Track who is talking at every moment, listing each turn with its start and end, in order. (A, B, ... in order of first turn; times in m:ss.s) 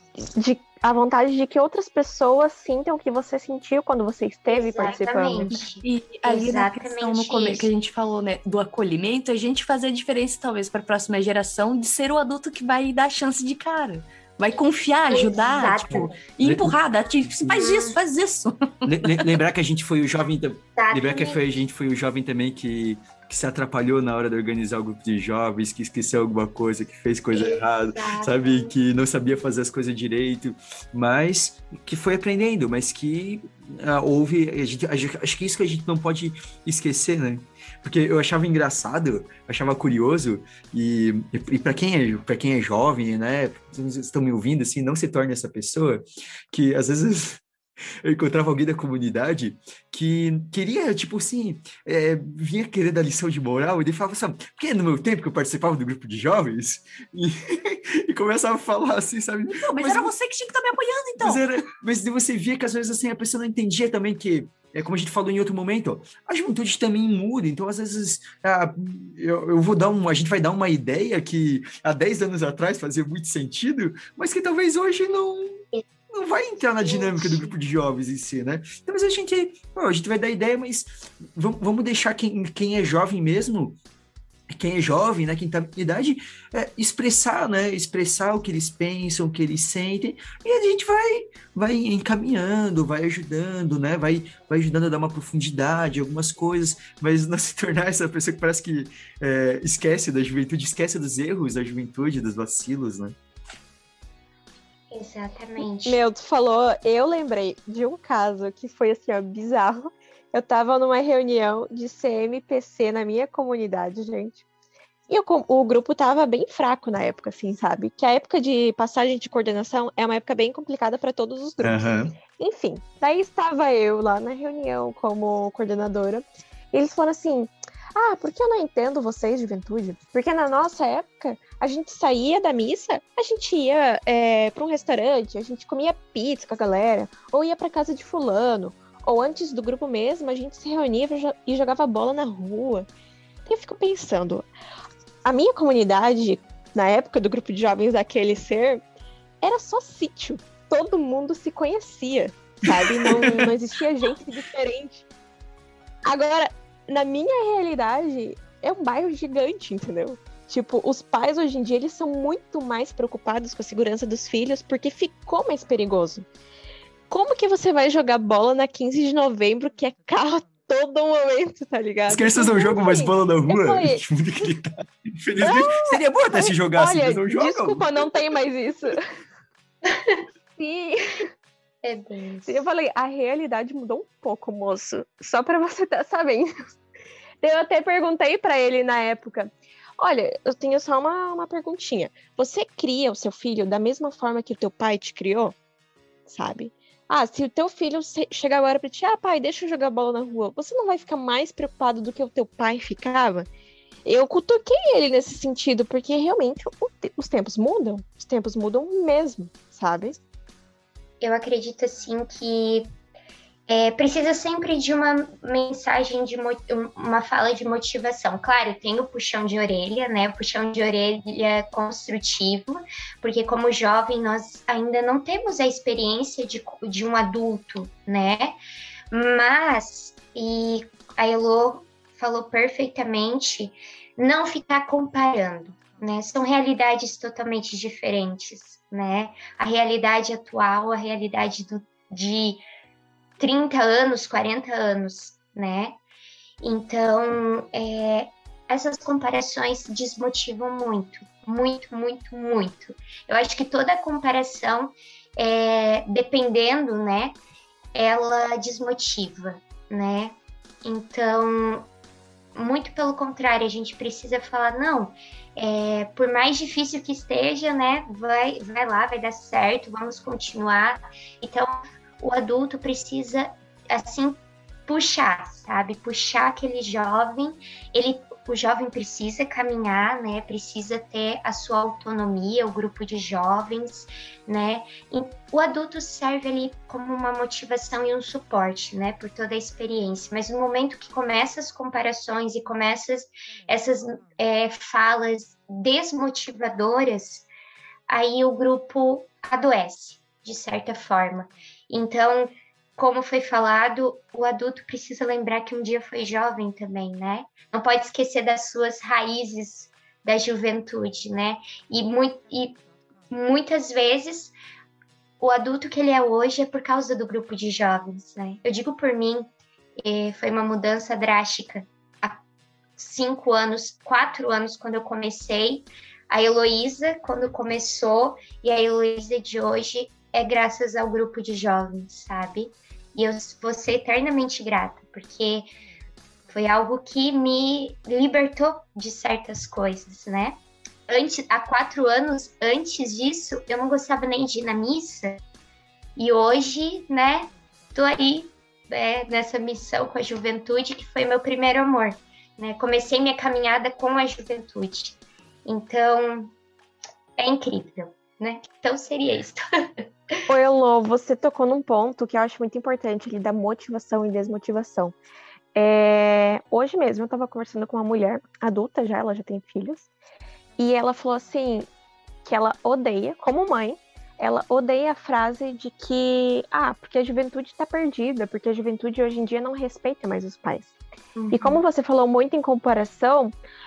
0:00.2-0:05.6 A
0:04.5-0:07.7 B
0:05.8-0:19.4 C
0:15.1-0:16.1 B
0:16.4-0:16.8 D
0:17.5-0:18.0 B
0:18.8-0:47.4 D
0:20.8-0:21.4 B
0:27.3-0:28.7 B
0:48.0-1:00.1 D
0:59.4-1:01.4 C
1:01.2-1:23.8 D
1:16.8-1:17.5 B
1:24.5-1:43.1 D
1:44.9-1:46.0 B
1:45.6-1:54.4 A
1:55.1-2:22.9 A
2:01.6-2:02.2 D
2:23.4-2:24.5 A
2:25.2-2:28.8 A
2:29.4-2:35.0 A
2:33.1-2:33.4 D
2:36.0-2:46.2 A
2:47.1-2:54.0 A
2:52.1-2:57.9 D
2:55.4-2:59.0 A
2:59.8-3:00.2 B
3:00.6-3:01.3 A
3:01.8-3:02.6 B
3:02.4-3:06.5 A
3:07.4-3:15.6 A
3:16.2-3:23.5 A
3:24.0-3:30.2 A
3:31.2-3:32.9 B
3:33.7-3:48.6 B
3:49.1-4:02.6 B
4:03.4-4:06.0 B
4:06.6-4:17.4 B
4:17.9-4:21.9 B
4:22.5-4:57.4 B
4:58.1-5:12.8 B
5:13.3-5:14.5 B
5:15.4-5:19.5 B
5:20.0-5:22.4 B
5:23.0-5:35.7 B
5:36.5-5:40.6 B
5:41.1-5:45.4 B
5:46.2-5:56.5 B
5:57.4-5:59.6 B
6:00.5-6:05.1 A
6:05.7-6:10.1 A
6:10.8-6:11.9 A
6:12.4-6:20.9 A
6:21.4-6:21.8 B
6:21.5-6:23.5 A